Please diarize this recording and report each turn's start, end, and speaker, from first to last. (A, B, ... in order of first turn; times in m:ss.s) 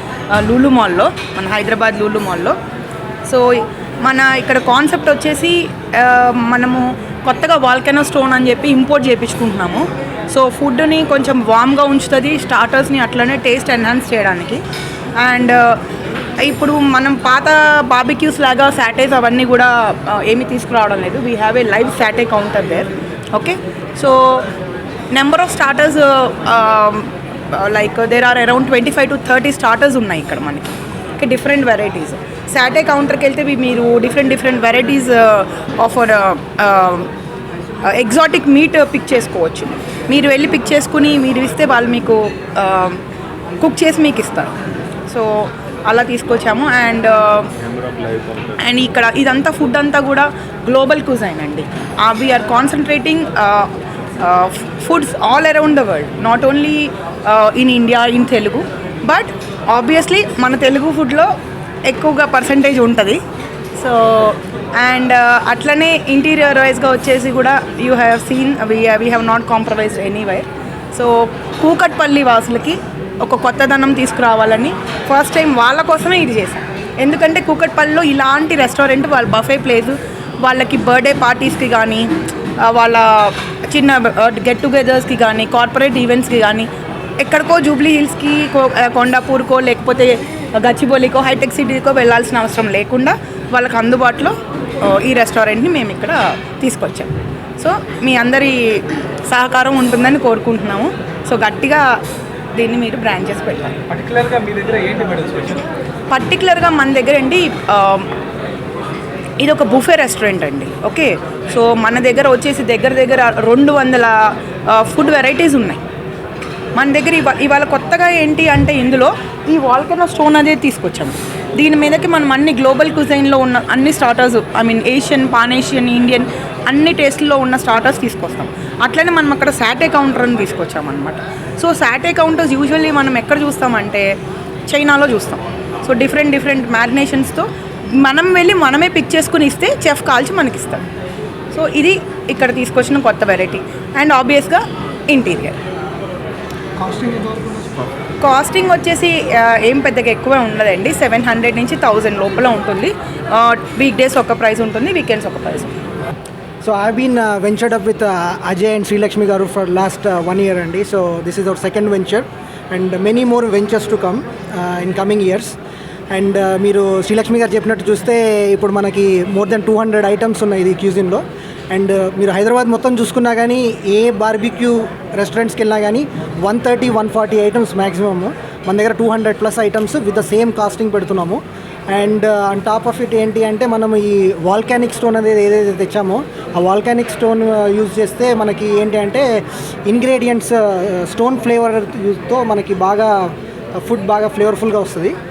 0:00.3-0:02.6 A
0:03.2-0:14.6 A
0:15.2-0:15.8 A
0:16.4-0:24.5 A
0:25.1-0:37.1 A
0:37.8-0:43.0 A
0:43.6-0:44.5 A
0:45.1-0:47.5 A
0:47.7-0:48.6 B
0:48.5-1:01.3 A
1:01.9-1:03.2 A
1:03.7-1:41.9 A
1:42.5-1:43.9 A
1:43.9-1:45.6 B
1:46.1-1:48.1 A
1:49.4-1:55.8 A
1:56.7-2:14.1 A
2:14.7-2:20.8 A
2:21.5-2:25.6 A
2:26.8-2:27.9 C
2:28.2-2:35.7 A
2:36.6-2:45.6 C
2:46.1-3:15.2 C